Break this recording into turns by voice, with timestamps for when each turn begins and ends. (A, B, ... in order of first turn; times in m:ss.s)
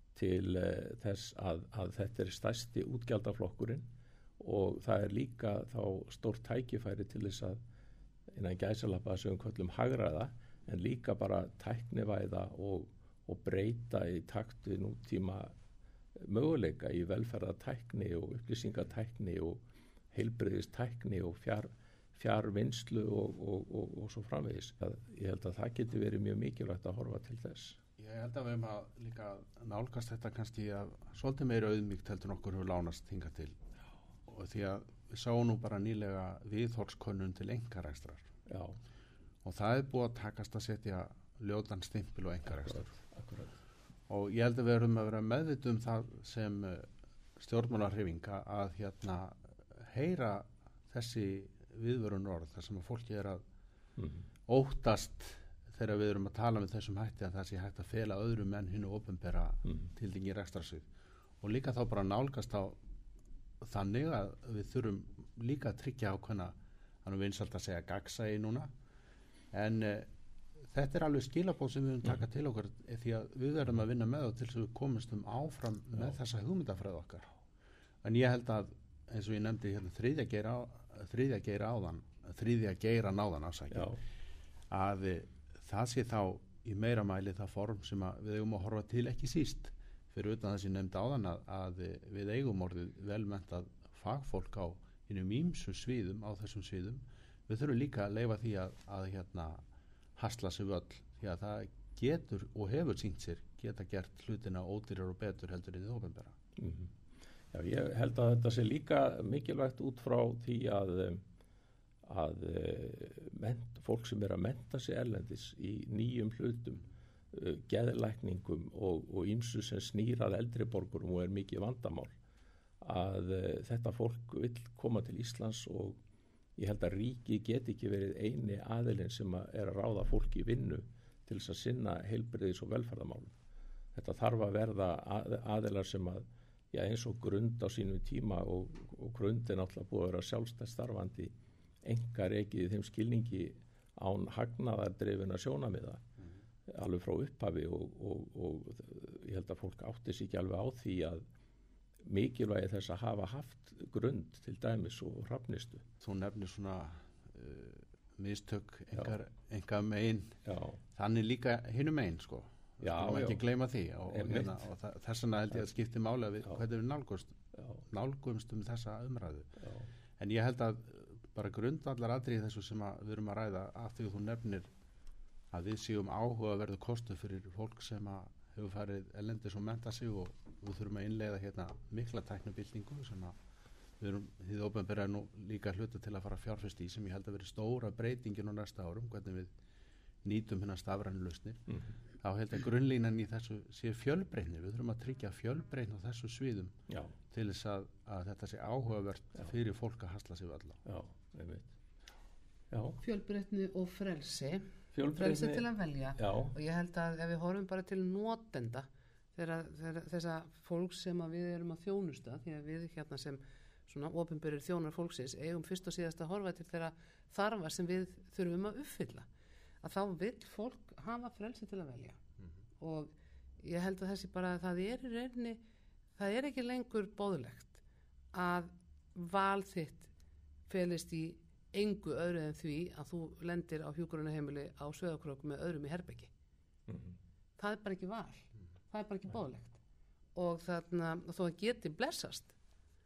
0:00.1-0:03.8 A
0:04.4-0:07.6 A
0:08.3-0:15.5 A
0:16.2-0:19.6 A
0:20.1-0:27.8 A
0:28.0-0:33.6 B
0:34.3-0:38.3 B
0:38.5-0:38.8 A
0:39.4-0:42.9 B
0:42.7-0:43.6 A
0:44.1-0:53.4 B
0:54.0-0:54.2 A
0:54.5-1:00.9 B
1:01.4-1:02.8 B
1:03.6-1:08.7 B
1:09.5-1:10.1 B
1:10.7-1:17.3 B
1:18.0-1:24.0 B
1:23.7-1:24.0 A
1:24.7-1:39.6 B
1:40.2-1:46.4 B
1:46.6-1:46.9 A
1:47.5-1:51.2 A
1:52.0-2:02.1 A
2:02.8-2:06.0 A
2:06.6-2:13.4 A
2:13.9-2:21.3 A
2:21.8-2:26.0 A
2:26.7-2:31.2 A
2:32.0-2:35.8 A
2:36.0-2:40.4 B
2:40.4-2:40.8 A
2:40.9-2:49.5 B
2:42.8-2:43.4 A
2:44.1-2:44.6 A
2:49.6-2:49.9 A
2:50.2-2:54.7 B
2:55.5-3:03.4 B
3:04.0-3:09.5 B
3:10.2-3:11.6 B
3:12.2-3:16.8 B
3:16.9-3:17.1 A
3:17.3-3:20.8 B
3:20.8-3:21.7 A
3:22.7-3:23.0 A
3:23.0-3:24.6 C
3:24.9-3:25.6 A
3:25.1-3:39.2 C
3:26.2-3:26.5 A
3:39.8-3:42.2 C
3:42.8-3:45.6 C
3:46.2-3:47.8 C
3:48.3-3:50.1 C
3:50.7-3:56.3 C
3:56.9-3:57.2 A
3:57.6-3:59.8 C
4:00.3-4:02.5 C